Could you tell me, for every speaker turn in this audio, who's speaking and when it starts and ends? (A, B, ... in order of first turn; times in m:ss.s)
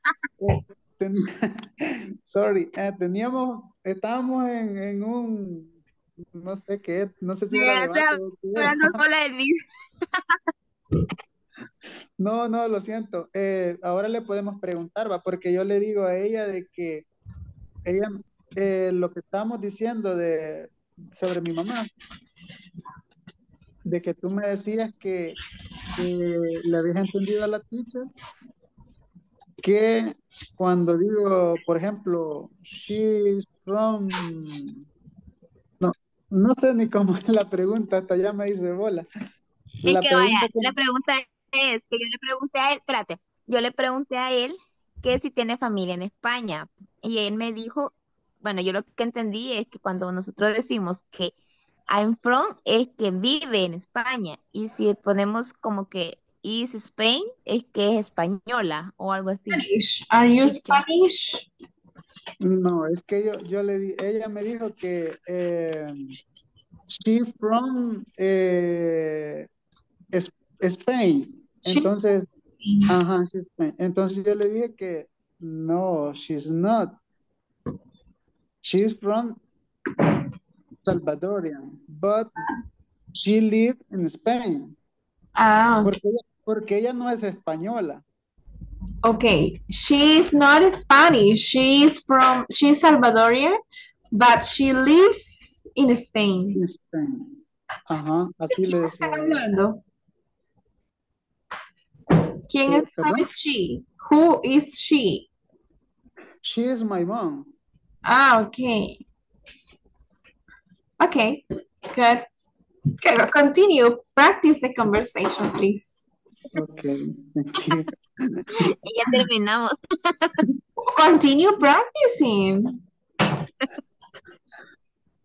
0:00.4-0:05.8 A
0:06.3-0:09.0 A
0:07.5-0:09.6 B
0:12.2-0:17.0 A
0:17.9-0:21.9 A
0:23.9-0:25.4 A
0:26.0-0:28.1 A
0:29.6-0:34.8 A
0:35.8-0:39.1 A
0:39.8-0:51.3 B
0:39.9-0:40.7 A
0:51.9-0:59.6 B
0:59.5-1:01.5 C
1:02.4-1:06.2 A
1:06.9-1:09.5 A
1:10.1-1:12.3 A
1:11.7-1:12.0 C
1:12.6-1:12.9 C
1:12.9-1:17.0 A
1:18.6-1:19.4 A
1:20.8-1:22.3 A
1:23.2-1:24.8 A
1:25.4-1:25.9 C
1:25.8-1:28.0 A
1:29.0-1:33.6 C
1:34.1-1:36.6 C
1:36.5-1:39.5 A
1:38.5-1:39.8 C
1:42.5-1:45.3 C
1:42.6-1:43.3 A
1:46.4-1:47.5 A
1:48.0-1:49.0 C
1:51.0-1:52.2 C
1:53.0-1:56.0 C
1:56.6-1:58.4 A
1:58.6-2:00.4 B
2:00.8-2:02.8 C